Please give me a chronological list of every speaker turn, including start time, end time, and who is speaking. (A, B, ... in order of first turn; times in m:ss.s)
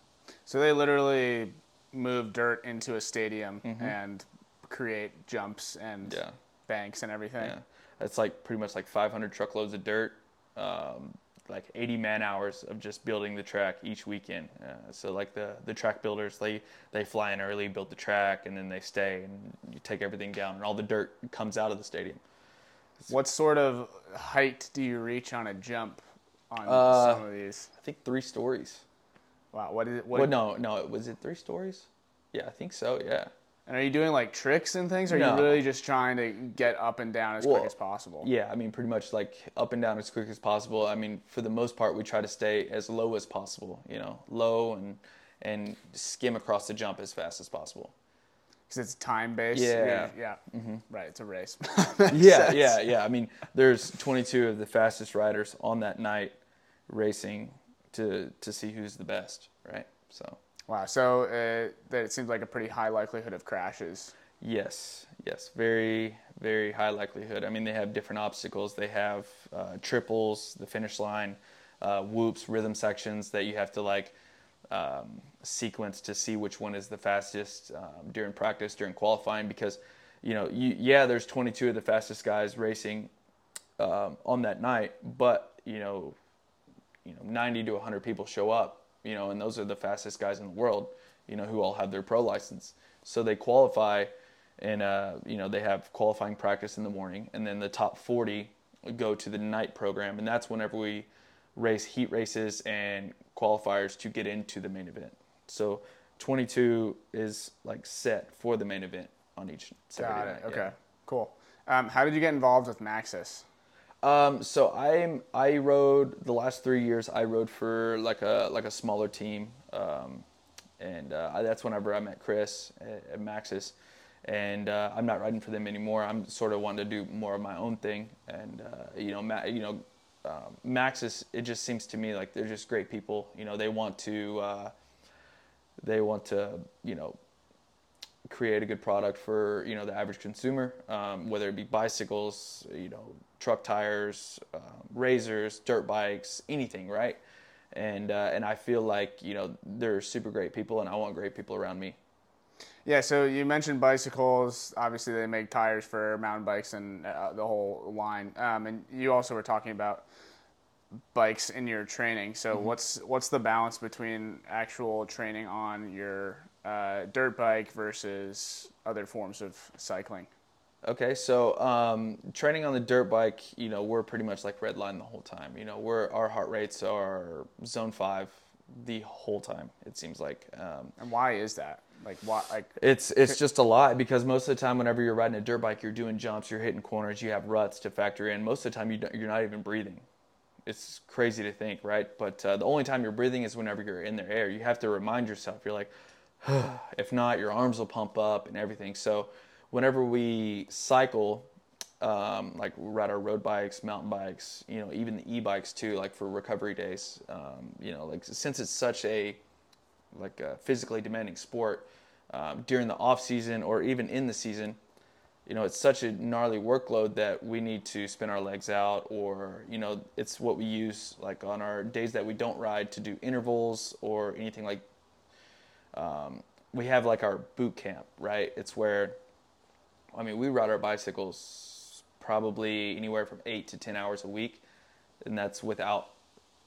0:00.5-0:07.6 A
0:03.6-0:04.0 B
0:06.1-0:06.4 B
0:07.4-0:22.2 B
0:23.1-0:27.7 A
0:26.6-0:27.2 B
0:27.8-0:28.8 B
0:29.5-0:30.4 A
0:30.1-0:33.3 B
0:33.7-0:38.3 A
0:35.1-0:35.6 B
0:37.4-0:47.9 B
0:48.7-0:52.8 A
0:49.5-0:50.8 B
0:52.1-0:56.4 B
0:56.9-1:00.4 B
1:00.7-1:04.1 A
1:04.4-1:14.2 B
1:14.7-1:23.1 B
1:23.8-1:26.2 B
1:27.0-1:50.7 B
1:50.0-1:53.4 A
1:54.0-2:00.2 B
2:00.8-2:14.7 B
2:15.8-2:17.2 B
2:18.3-2:27.2 B
2:27.7-2:32.0 B
2:32.8-2:40.1 A
2:41.1-2:50.3 A
2:50.8-3:00.9 B
3:01.0-3:02.8 A
3:02.8-3:10.0 B
3:10.7-3:21.5 B
3:22.0-3:29.4 B
3:30.1-3:34.8 B
3:35.5-3:44.8 B
3:45.9-3:49.2 B
3:50.1-3:54.6 B
3:55.2-3:56.1 B